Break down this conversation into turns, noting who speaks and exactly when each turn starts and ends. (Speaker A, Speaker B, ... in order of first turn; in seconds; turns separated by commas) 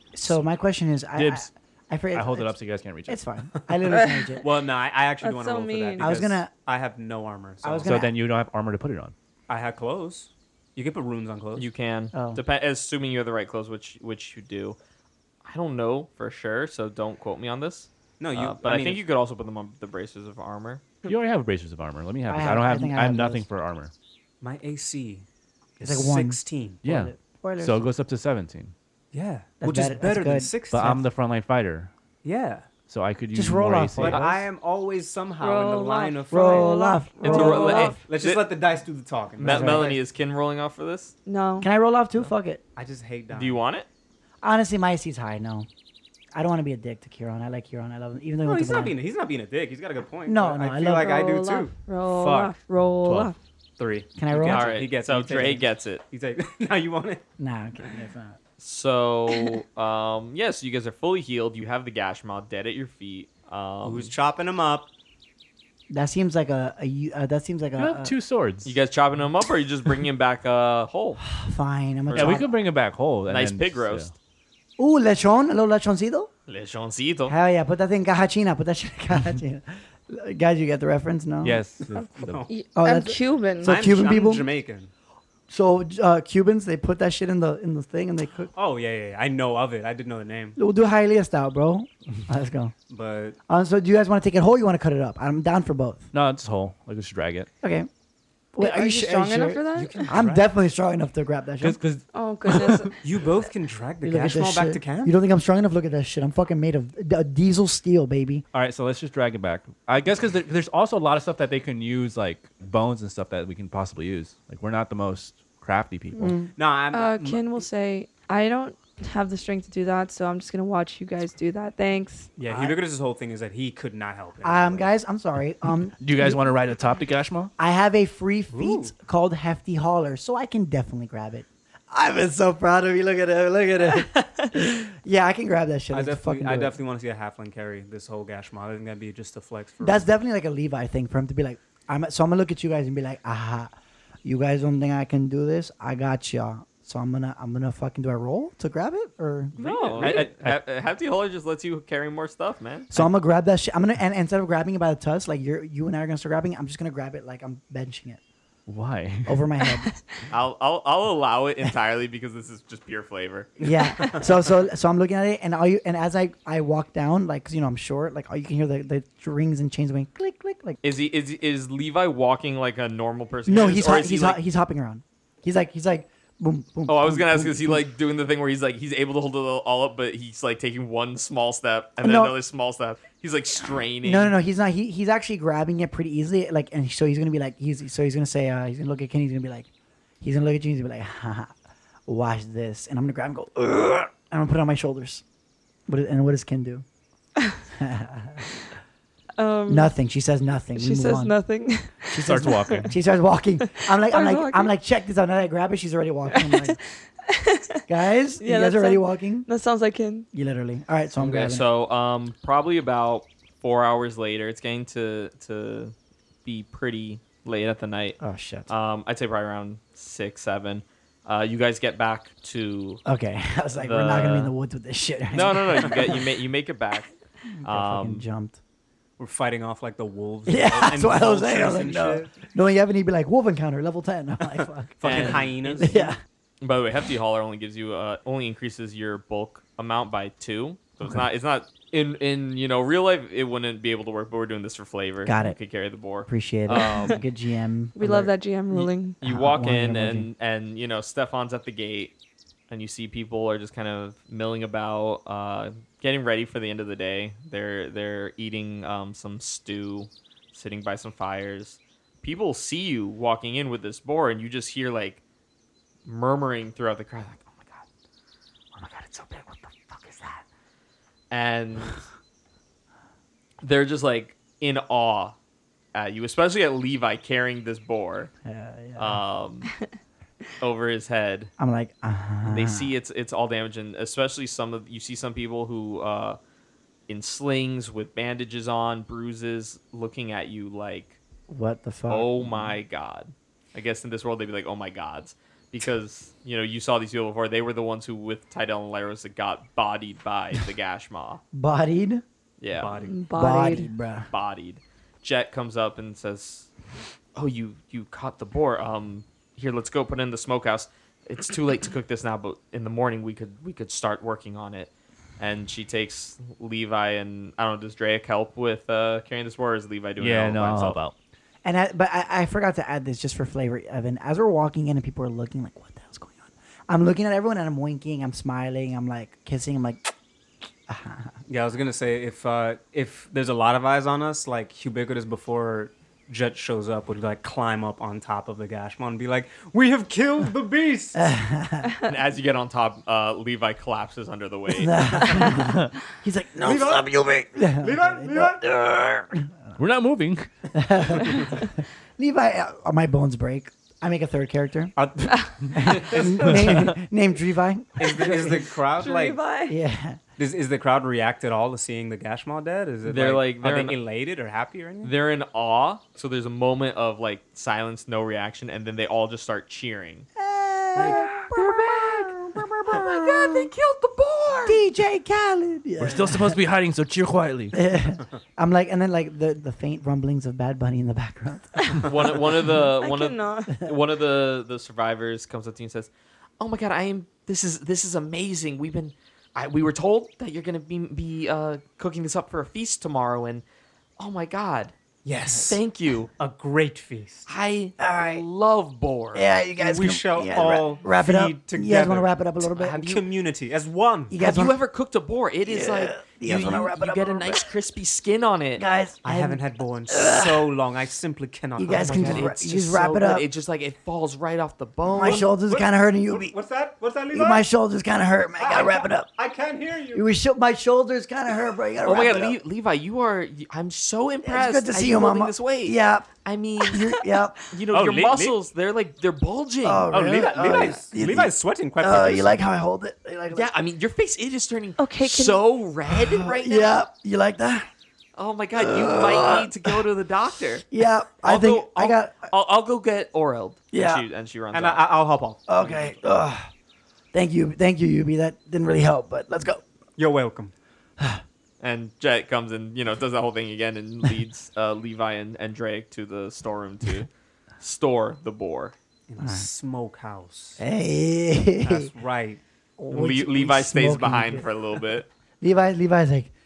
Speaker A: 0.1-4.4, Speaker B: 1.1-1.5, Speaker B: 2.1-3.2, Speaker C: 4.4-7.9, Speaker D: 5.2-6.2, Speaker A: 6.0-6.5, Speaker A: 7.6-8.2, Speaker B: 7.8-9.1, Speaker C: 9.5-11.7, Speaker E: 11.6-14.8, Speaker A: 12.1-12.4, Speaker E: 15.4-20.8, Speaker C: 18.2-19.0, Speaker B: 21.0-23.9, Speaker A: 22.3-23.4, Speaker C: 24.4-25.2, Speaker C: 25.8-26.8, Speaker A: 25.8-27.8, Speaker B: 26.8-28.7, Speaker C: 29.1-31.0, Speaker A: 29.6-31.0, Speaker B: 30.7-31.9, Speaker C: 32.2-32.7, Speaker B: 32.9-34.2, Speaker A: 33.3-34.2, Speaker C: 34.0-36.8, Speaker D: 35.4-38.0, Speaker A: 36.3-38.0, Speaker E: 37.2-38.5, Speaker C: 38.1-40.0, Speaker E: 39.4-41.1, Speaker A: 39.4-39.9, Speaker D: 41.2-41.7, Speaker A: 41.6-42.6, Speaker C: 42.2-43.6, Speaker E: 43.3-43.9, Speaker A: 44.4-45.7, Speaker A: 46.3-48.9, Speaker C: 48.4-52.5, Speaker A: 50.3-51.1, Speaker D: 50.9-53.4, Speaker B: 53.0-53.3, Speaker C: 53.8-57.2, Speaker A: 54.2-54.8, Speaker E: 54.5-56.0, Speaker A: 57.4-58.4, Speaker E: 58.6-64.1, Speaker C: 63.8-64.9, Speaker A: 65.9-68.1, Speaker B: 67.8-68.8, Speaker E: 68.6-71.2, Speaker A: 71.2-72.5, Speaker E: 72.1-72.5, Speaker B: 72.1-74.1, Speaker E: 73.3-74.1, Speaker A: 74.8-76.3, Speaker E: 76.5-77.3, Speaker A: 77.2-81.6, Speaker B: 81.4-82.4, Speaker D: 81.9-83.8, Speaker C: 82.2-82.5, Speaker A: 82.7-84.5, Speaker C: 83.6-84.9, Speaker A: 85.5-88.5, Speaker C: 88.5-90.6, Speaker A: 90.5-92.7, Speaker C: 92.9-93.4, Speaker A: 93.5-96.1, Speaker B: 96.1-97.5, Speaker A: 97.6-97.9, Speaker A: 98.5-101.8, Speaker D: 98.6-100.0, Speaker C: 99.7-100.5, Speaker B: 101.6-102.0, Speaker D: 102.1-103.0, Speaker C: 102.6-105.1, Speaker A: 104.0-108.4, Speaker B: 108.5-116.4, Speaker A: 116.1-116.5, Speaker C: 116.5-117.4, Speaker D: 116.9-122.3, Speaker C: 122.4-124.9, Speaker A: 122.5-122.8, Speaker A: 124.4-126.4, Speaker B: 126.0-127.5, Speaker A: 127.6-136.8, Speaker C: 128.5-128.9, Speaker C: 135.9-140.1, Speaker A: 139.8-143.7, Speaker A: 144.2-150.2, Speaker E: 149.6-152.9, Speaker C: 149.6-150.2, Speaker B: 150.0-150.6, Speaker A: 152.9-158.2, Speaker B: 158.7-159.4, Speaker A: 159.2-159.9, Speaker E: 160.3-163.6, Speaker C: 163.6-164.3, Speaker A: 163.6-170.8, Speaker E: 170.8-174.4, Speaker A: 173.5-177.9, Speaker E: 176.9-184.3, Speaker A: 182.0-182.3, Speaker A: 184.0-189.7, Speaker A: 190.2-191.5, Speaker A: 192.1-195.2, Speaker A: 195.9-196.8, Speaker A: 197.7-198.5, Speaker D: 199.4-199.9, Speaker A: 199.7-201.3, Speaker D: 200.8-202.9, Speaker B: 202.1-202.9, Speaker A: 202.3-206.8, Speaker D: 203.8-204.7, Speaker D: 207.2-207.8, Speaker A: 207.9-209.5, Speaker D: 208.4-210.2, Speaker A: 210.3-211.7, Speaker E: 211.2-215.9, Speaker E: 216.4-218.2, Speaker A: 218.2-218.7, Speaker E: 218.7-223.0, Speaker A: 223.0-226.2, Speaker E: 223.7-224.5, Speaker E: 225.3-227.1, Speaker A: 227.5-228.6, Speaker E: 227.6-228.2, Speaker C: 229.2-232.3, Speaker A: 230.5-236.2, Speaker E: 230.7-231.0, Speaker C: 235.0-236.1, Speaker E: 235.0-236.0, Speaker E: 236.6-247.2, Speaker A: 245.2-245.6, Speaker A: 246.2-250.3, Speaker D: 247.9-249.2, Speaker E: 249.2-252.1, Speaker E: 252.7-265.2, Speaker E: 266.1-267.8, Speaker E: 268.7-270.4, Speaker E: 271.3-272.0, Speaker E: 273.6-275.3, Speaker E: 275.9-278.3, Speaker A: 278.4-279.2, Speaker E: 279.0-279.7, Speaker E: 280.6-281.5, Speaker A: 281.6-282.9, Speaker E: 282.5-286.4, Speaker E: 287.1-291.2, Speaker A: 291.5-292.7, Speaker E: 292.1-301.4, Speaker A: 301.5-302.2, Speaker E: 302.6-302.9, Speaker C: 302.7-303.2, Speaker D: 303.0-303.9, Speaker A: 303.3-304.3, Speaker E: 304.3-306.7, Speaker E: 307.4-321.0, Speaker B: 320.2-321.1, Speaker A: 321.6-330.0, Speaker A: 330.9-331.4, Speaker C: 331.5-341.3, Speaker A: 341.1-341.9, Speaker E: 342.0-345.5, Speaker A: 344.7-349.7, Speaker B: 345.6-345.9, Speaker C: 346.6-347.1, Speaker C: 347.8-348.6, Speaker B: 349.8-350.5, Speaker A: 350.7-354.9, Speaker C: 351.2-351.5, Speaker C: 355.0-356.9, Speaker A: 355.7-358.7, Speaker C: 358.0-359.4, Speaker D: 358.9-359.8, Speaker A: 359.7-360.2, Speaker C: 360.4-365.1, Speaker E: 363.0-364.0, Speaker E: 365.0-370.2, Speaker A: 370.4-371.8, Speaker E: 370.9-374.8, Speaker C: 371.8-372.6, Speaker A: 373.0-373.7, Speaker A: 374.6-376.6, Speaker B: 376.0-377.8, Speaker A: 377.7-381.9, Speaker D: 381.8-382.1, Speaker E: 382.0-393.6, Speaker D: 382.7-383.8, Speaker E: 394.2-394.9, Speaker C: 395.2-395.8, Speaker E: 395.5-396.3, Speaker C: 396.4-397.5, Speaker E: 397.4-399.5, Speaker A: 398.0-398.4, Speaker A: 399.3-403.2, Speaker C: 399.8-404.3, Speaker A: 404.3-404.8, Speaker E: 404.4-408.8, Speaker A: 405.6-407.7, Speaker A: 408.8-410.7, Speaker C: 409.2-412.5, Speaker A: 411.8-413.5, Speaker E: 411.9-415.5, Speaker A: 415.1-416.5, Speaker C: 415.3-417.6, Speaker A: 417.3-419.3, Speaker C: 418.6-420.2, Speaker A: 420.1-422.6, Speaker E: 422.0-427.2, Speaker A: 424.4-427.6, Speaker E: 427.7-430.9, Speaker C: 427.9-428.6, Speaker A: 429.8-433.7, Speaker C: 430.1-432.6, Speaker E: 433.5-437.0, Speaker D: 435.0-435.6, Speaker A: 436.1-437.9, Speaker E: 438.4-440.9, Speaker A: 438.8-440.0, Speaker A: 440.9-442.5, Speaker E: 441.4-445.0, Speaker A: 443.9-444.2, Speaker C: 444.7-445.6, Speaker A: 445.7-446.7, Speaker A: 447.3-449.8, Speaker C: 450.2-450.7, Speaker E: 451.8-457.3, Speaker E: 457.8-458.9, Speaker C: 459.3-460.8, Speaker A: 459.4-459.7, Speaker A: 460.8-462.1, Speaker C: 461.8-462.6, Speaker A: 463.0-464.7, Speaker E: 463.1-465.3, Speaker A: 465.6-466.5